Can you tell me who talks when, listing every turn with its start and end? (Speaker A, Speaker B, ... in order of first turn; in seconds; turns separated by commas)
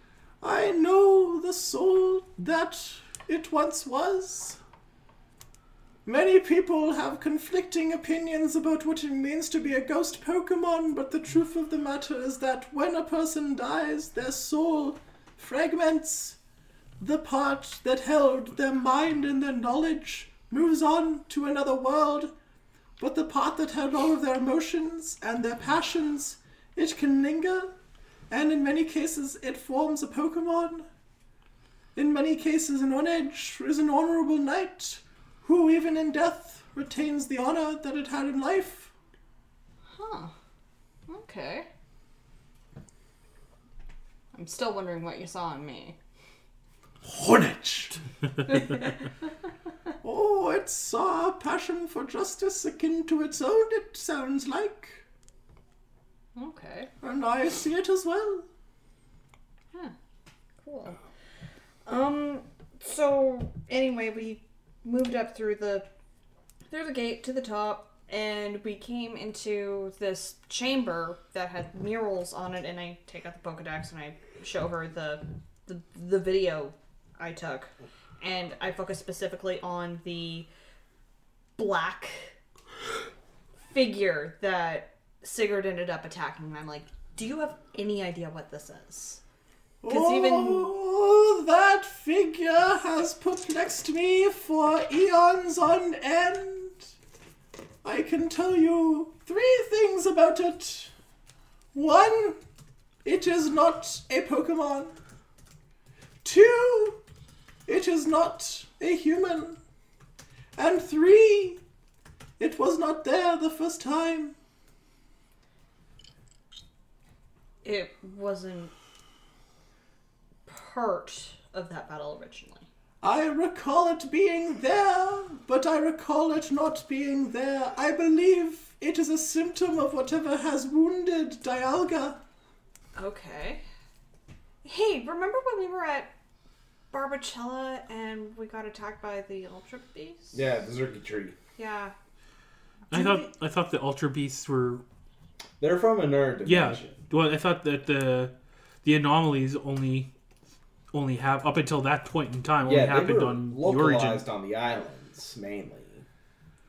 Speaker A: 0.4-4.6, Speaker A: 6.0-16.4, Speaker A: 17.0-22.3, Speaker A: 23.0-27.7, Speaker A: 28.3-30.9, Speaker A: 31.9-38.9, Speaker B: 39.9-40.3, Speaker B: 41.1-41.7, Speaker B: 44.3-46.0, Speaker A: 47.1-48.0, Speaker B: 48.5-48.9, Speaker A: 50.0-55.0, Speaker B: 56.4-56.9, Speaker A: 57.0-58.5, Speaker B: 60.6-61.0, Speaker B: 61.9-65.9, Speaker B: 66.7-80.5, Speaker B: 81.6-82.3, Speaker B: 83.7-89.2, Speaker A: 89.8-96.8, Speaker B: 89.9-90.7, Speaker A: 97.8-100.9, Speaker A: 101.7-102.4, Speaker A: 103.0-105.0, Speaker A: 106.2-107.0, Speaker A: 107.7-109.6, Speaker A: 110.6-111.6, Speaker A: 112.4-114.3, Speaker B: 117.6-118.7, Speaker B: 120.5-122.7, Speaker A: 123.0-132.2, Speaker B: 132.9-133.6, Speaker B: 134.6-136.1, Speaker B: 136.9-140.4, Speaker C: 140.3-141.4, Speaker B: 141.6-141.9, Speaker D: 142.9-144.8, Speaker C: 145.6-147.0, Speaker D: 146.4-150.1, Speaker D: 150.9-154.2, Speaker C: 152.7-156.1